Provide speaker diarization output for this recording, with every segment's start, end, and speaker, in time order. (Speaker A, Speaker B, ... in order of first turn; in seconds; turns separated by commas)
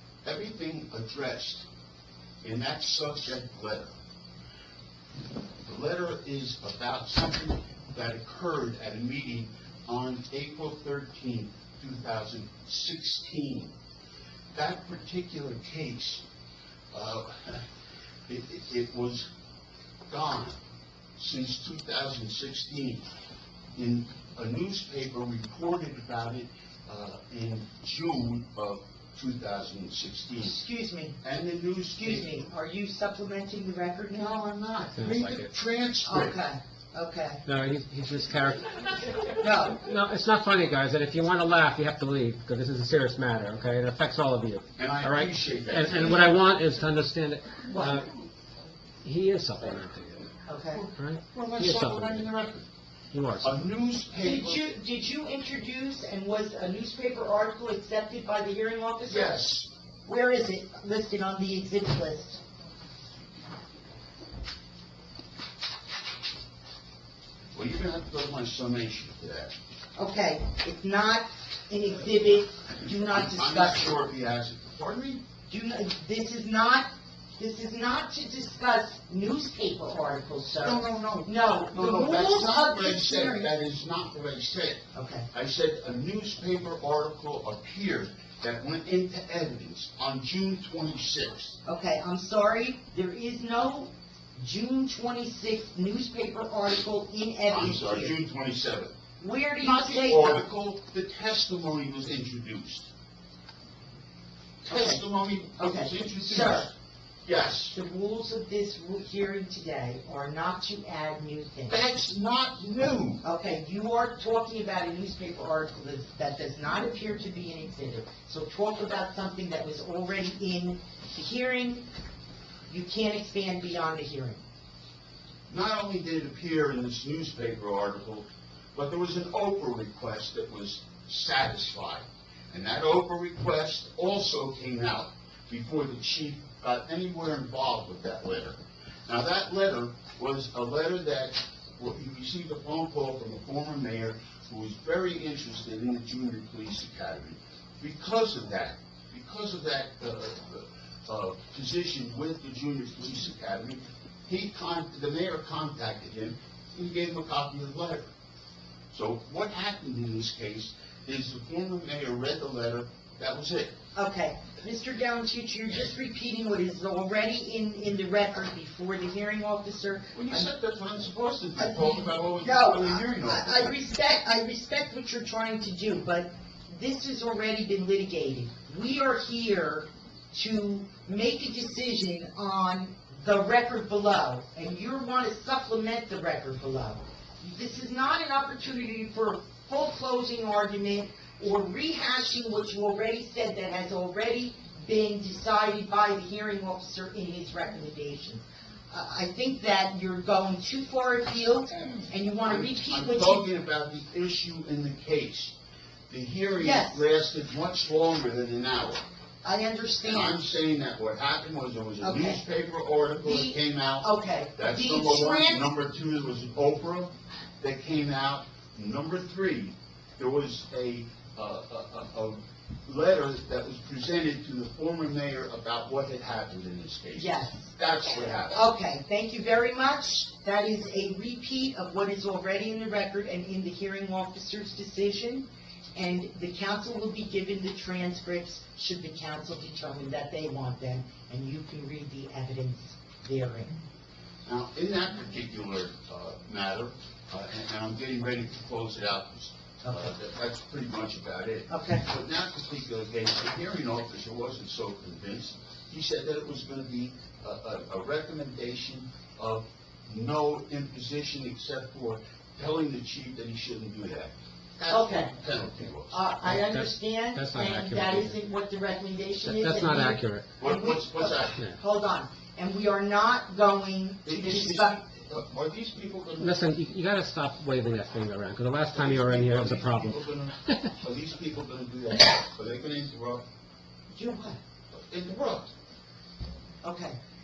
Speaker A: 0.2-1.6, Speaker A: 2.4-3.9, Speaker A: 5.7-13.7, Speaker A: 14.5-16.2, Speaker A: 16.9-17.6, Speaker A: 18.3-19.3, Speaker A: 20.1-20.6, Speaker A: 21.2-23.1, Speaker A: 23.8-30.6, Speaker B: 30.4-31.2, Speaker A: 31.2-32.3, Speaker B: 32.0-34.4, Speaker A: 34.1-36.4, Speaker C: 35.0-35.5, Speaker B: 36.0-37.4, Speaker C: 37.5-48.1, Speaker B: 39.4-39.8, Speaker A: 44.8-46.4, Speaker B: 47.7-48.0, Speaker C: 49.0-50.2, Speaker B: 50.5-50.8, Speaker A: 50.7-52.7, Speaker C: 51.0-52.2, Speaker C: 53.1-53.5, Speaker A: 53.4-54.6, Speaker B: 54.2-59.4, Speaker A: 59.1-59.7, Speaker B: 60.0-62.4, Speaker A: 67.5-69.5, Speaker B: 70.0-74.0, Speaker A: 72.8-75.2, Speaker B: 75.5-83.5, Speaker A: 80.6-91.6, Speaker B: 84.9-85.3, Speaker B: 91.6-98.2, Speaker A: 97.5-99.0, Speaker B: 99.2-100.4, Speaker A: 99.6-102.9, Speaker B: 104.6-105.0, Speaker A: 104.6-106.7, Speaker B: 105.5-106.7, Speaker A: 107.2-107.8, Speaker B: 107.7-111.8, Speaker A: 111.7-113.2, Speaker B: 113.2-121.9, Speaker B: 122.7-124.4, Speaker A: 125.5-158.1, Speaker A: 158.9-163.8, Speaker B: 163.9-170.5, Speaker A: 170.1-173.7, Speaker B: 171.6-203.4, Speaker A: 202.4-205.5, Speaker A: 206.1-209.0, Speaker B: 206.6-207.0, Speaker B: 209.4-210.4, Speaker A: 210.0-228.6, Speaker B: 212.0-212.4, Speaker B: 213.2-215.7, Speaker B: 227.2-227.8, Speaker B: 228.5-243.8, Speaker A: 244.4-266.2, Speaker B: 251.7-252.0, Speaker B: 264.9-265.3, Speaker B: 266.1-275.0, Speaker C: 266.4-268.4, Speaker C: 269.4-270.5, Speaker A: 270.6-271.6, Speaker A: 274.2-276.6, Speaker C: 276.4-280.2, Speaker A: 278.9-283.4, Speaker B: 284.1-284.6, Speaker A: 284.9-285.7, Speaker B: 286.8-287.2